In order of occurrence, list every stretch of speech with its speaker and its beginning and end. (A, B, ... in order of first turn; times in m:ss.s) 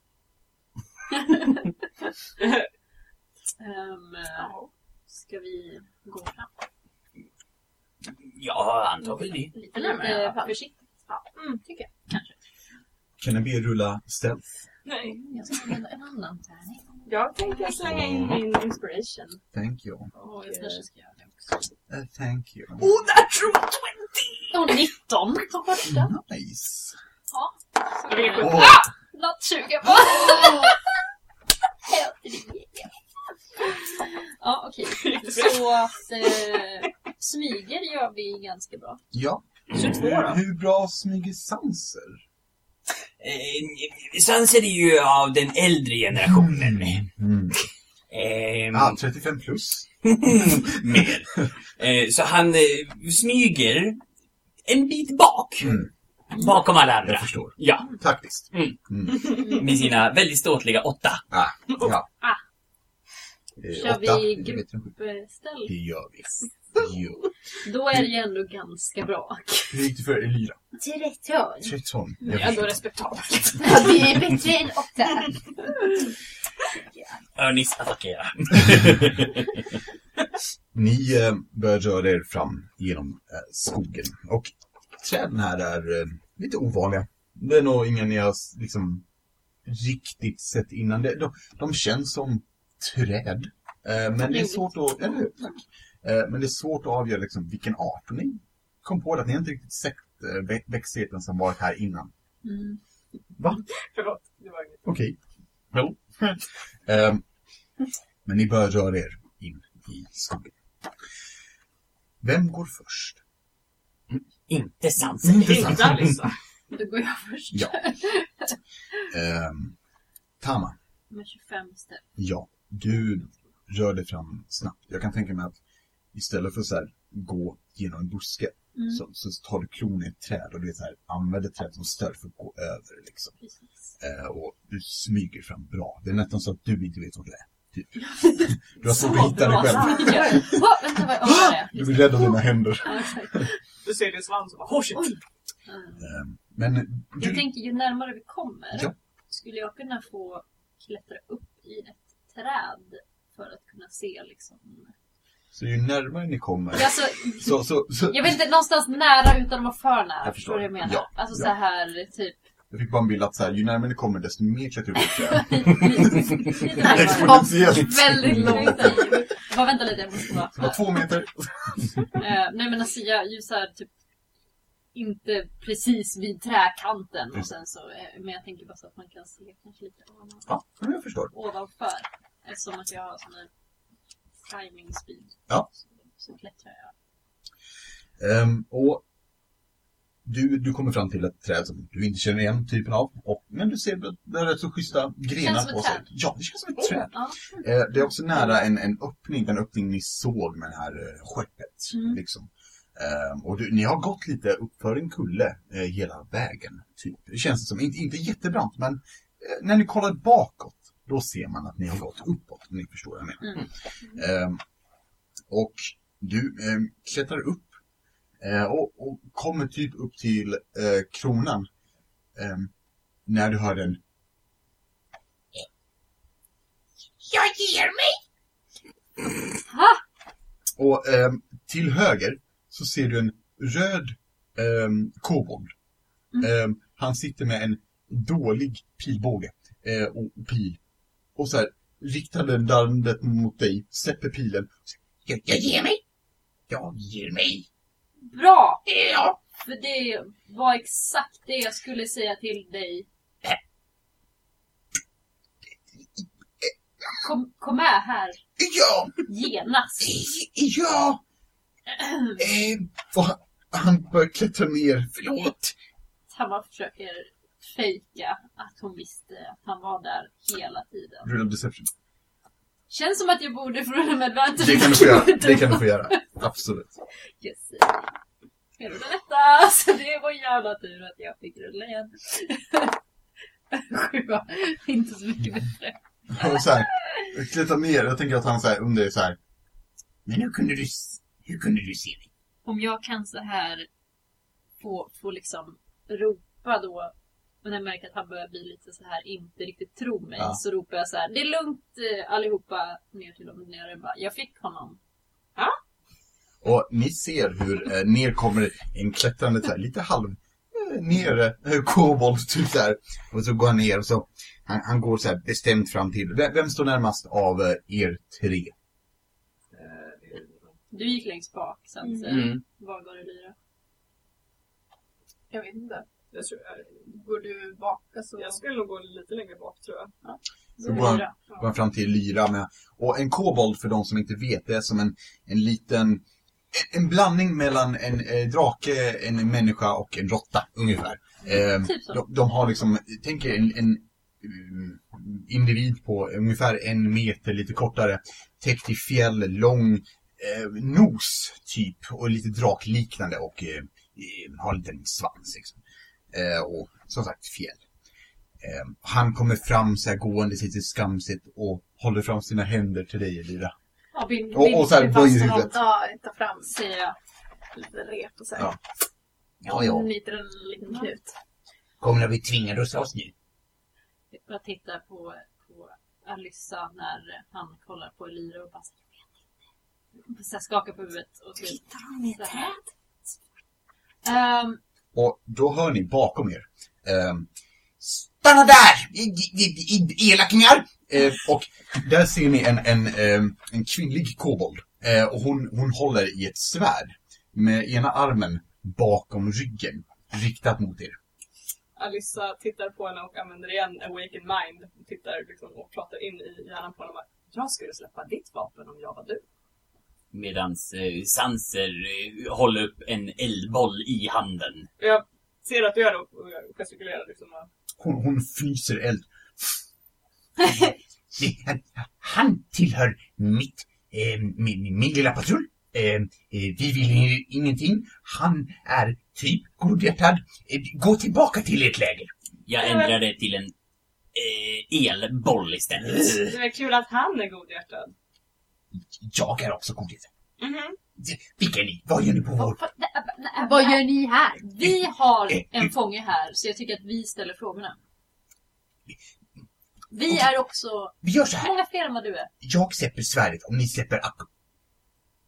0:01.1-0:01.6 A
0:03.6-0:04.5 A
0:04.4-0:04.7 B
0:05.1-0:06.5 A
0:08.1-0:09.5 C
0:09.5-0:11.9 B
0:09.6-0:10.9 A
0:12.1-0:12.4 A
0:13.2-0:14.4 D
0:14.9-0:15.7 E
0:15.0-0:17.0 A
0:17.1-0:19.4 E
0:17.3-0:17.9 B
0:17.9-0:18.4 D
0:19.5-0:20.1 D
0:20.2-0:21.6 A
0:21.9-0:23.0 D
0:23.2-0:24.4 E
0:24.5-0:26.1 A
0:26.0-0:27.0 D
0:27.3-0:30.8 A
0:28.1-0:28.7 E
0:28.4-0:28.8 D
0:31.8-0:33.0 A
0:33.6-0:39.0 A
0:34.9-0:35.8 E
0:39.1-0:42.2 D
0:39.7-0:40.4 E
0:43.2-0:47.0 C
0:46.3-0:47.6 D
0:48.1-0:49.0 C
0:48.7-0:49.9 D
0:50.0-0:54.0 C
0:54.7-0:57.9 C
0:55.6-0:55.9 D
0:57.0-0:59.4 D
0:58.5-1:01.2 C
1:01.3-1:02.1 D
1:03.6-1:04.9 D
1:03.7-1:05.7 A
1:05.7-1:07.2 D
1:07.6-1:09.9 A
1:09.7-1:10.6 D
1:10.9-1:11.7 A
1:11.6-1:12.8 D
1:12.2-1:14.0 E
1:13.6-1:15.7 B
1:17.4-1:19.8 C
1:20.7-1:29.0 D
1:29.6-1:42.1 D
1:34.3-1:34.7 A
1:42.4-1:42.8 A
1:43.4-1:43.6 D
1:43.9-1:44.8 E
1:44.8-1:45.2 D
1:45.7-1:47.2 D
1:48.2-1:50.6 D
1:52.2-1:53.2 D
1:54.5-1:55.9 C
1:55.2-1:56.2 D
1:55.2-1:56.3 E
1:56.7-1:59.0 A
1:59.1-1:59.8 D
2:00.4-2:00.8 D
2:01.1-2:02.1 A
2:02.2-2:05.6 D
2:06.1-2:13.4 D
2:08.8-2:09.0 A
2:13.4-2:13.9 A
2:14.0-2:23.4 D
2:18.0-2:23.6 A
2:23.8-2:25.2 E
2:25.7-2:26.1 A
2:26.0-2:27.5 D
2:27.2-2:34.9 A
2:35.5-2:38.3 D
2:36.7-2:42.4 A
2:40.2-2:41.5 D
2:42.7-2:49.1 D
2:45.1-2:51.2 A
2:46.8-2:49.3 B
2:50.6-2:51.3 D
2:52.1-2:53.9 A
2:54.9-3:00.5 A
3:00.5-3:01.3 D
3:01.3-3:03.5 A
3:04.4-3:06.9 A
3:08.2-3:09.0 D
3:10.2-3:34.6 D
3:15.3-3:16.0 A
3:22.0-3:22.2 A
3:35.5-3:37.7 D
3:38.4-3:41.7 D
3:42.4-3:42.7 D
3:43.3-3:44.0 D
3:47.2-3:48.2 D
3:49.7-3:50.0 A
3:50.8-3:55.7 D
3:56.4-4:00.8 D
4:01.4-4:06.0 D
4:06.7-4:07.7 D
4:08.3-4:08.9 A
4:08.9-4:09.4 D
4:09.5-4:13.1 A
4:15.9-4:17.3 D
4:17.2-4:18.4 A
4:18.6-4:19.2 D
4:19.2-4:20.2 A
4:20.0-4:21.2 D
4:21.9-4:22.4 A
4:22.4-4:25.8 D
4:26.3-4:31.3 A
4:31.2-4:31.9 D
4:32.9-4:36.2 A
4:34.6-4:37.0 D
4:37.4-4:38.1 A
4:38.8-4:43.0 A
4:43.7-4:47.4 A
4:46.3-4:49.4 D
4:50.3-4:52.3 D
4:52.6-4:53.9 A
4:54.8-5:05.0 A
5:06.6-5:18.7 D
5:19.7-5:20.8 E
5:20.9-5:23.6 A
5:22.1-5:22.5 B
5:22.3-5:22.6 C
5:25.5-5:26.1 B
5:26.3-5:27.1 E
5:27.1-5:28.6 B
5:28.4-5:30.2 E
5:30.8-5:31.3 A
5:30.8-5:55.8 D
5:30.9-5:31.6 E
5:41.5-5:42.2 A
5:56.3-5:57.8 D
5:58.6-6:03.7 D
6:04.1-6:05.7 A
6:04.5-6:05.7 D
6:05.4-6:06.8 B
6:06.7-6:07.2 A
6:07.8-6:08.7 B
6:09.6-6:10.1 D
6:09.7-6:11.3 B
6:09.9-6:11.1 A
6:12.0-6:13.3 D
6:14.3-6:19.5 A
6:20.3-6:21.8 A
6:21.6-6:22.9 E
6:22.4-6:22.8 A
6:24.2-6:24.8 A
6:25.2-6:27.5 D
6:28.0-6:41.2 D
6:42.0-6:49.4 E
6:50.3-6:54.9 C
6:55.0-6:57.7 E
6:58.0-6:59.8 D
7:00.6-7:12.3 D
7:12.7-7:13.7 C
7:12.8-7:13.2 E
7:14.3-7:16.5 C
7:16.4-7:18.1 E
7:19.0-7:20.3 D
7:20.6-7:21.0 E
7:21.2-7:22.8 D
7:22.6-7:28.0 A
7:23.6-7:24.6 B
7:24.8-7:25.9 D
7:30.1-7:32.5 A
7:31.2-7:31.7 D
7:32.6-7:34.5 D